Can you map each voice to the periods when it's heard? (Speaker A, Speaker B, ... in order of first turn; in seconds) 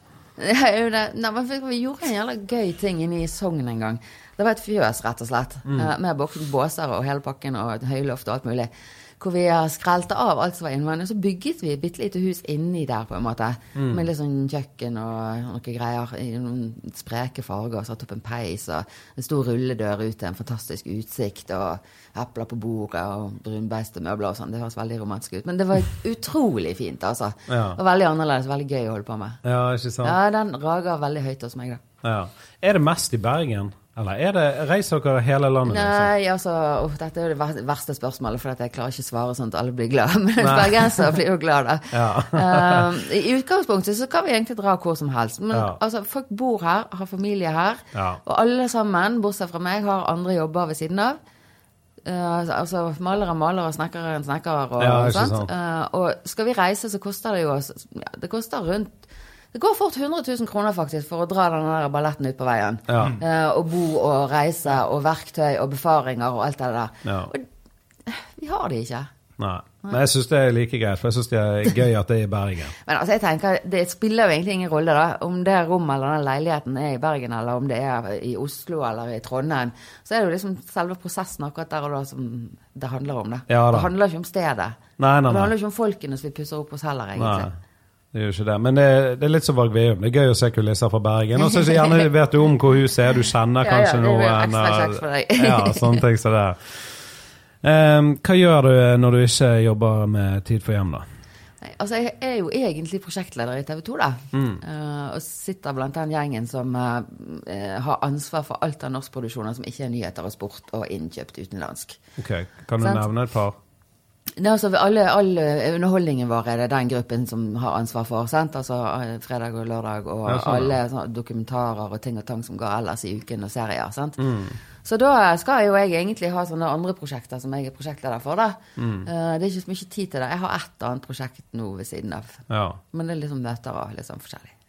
Speaker A: 0.4-29.4, 30.0-31.8, 35.6-51.2, 52.0-59.0, 59.5-67.5, 68.1-69.1, 72.8-87.5, 91.4-92.1, 93.6-96.0, 101.6-112.0, 112.8-113.0, 114.4-124.2, 124.8-134.5
Speaker B: 5.7-5.9, 13.8-14.1, 27.5-27.8, 29.4-30.2, 32.0-36.1, 40.4-41.2, 41.9-43.0, 45.5-45.8, 47.9-48.2, 54.8-55.5, 62.9-63.2, 67.0-67.3, 69.4-72.7, 83.5-83.9, 85.0-85.5, 87.2-87.5, 88.1-97.0, 97.6-101.0, 104.3-104.6, 112.2-113.6, 120.3-120.8, 124.2-124.6, 128.8-129.1, 132.5-132.8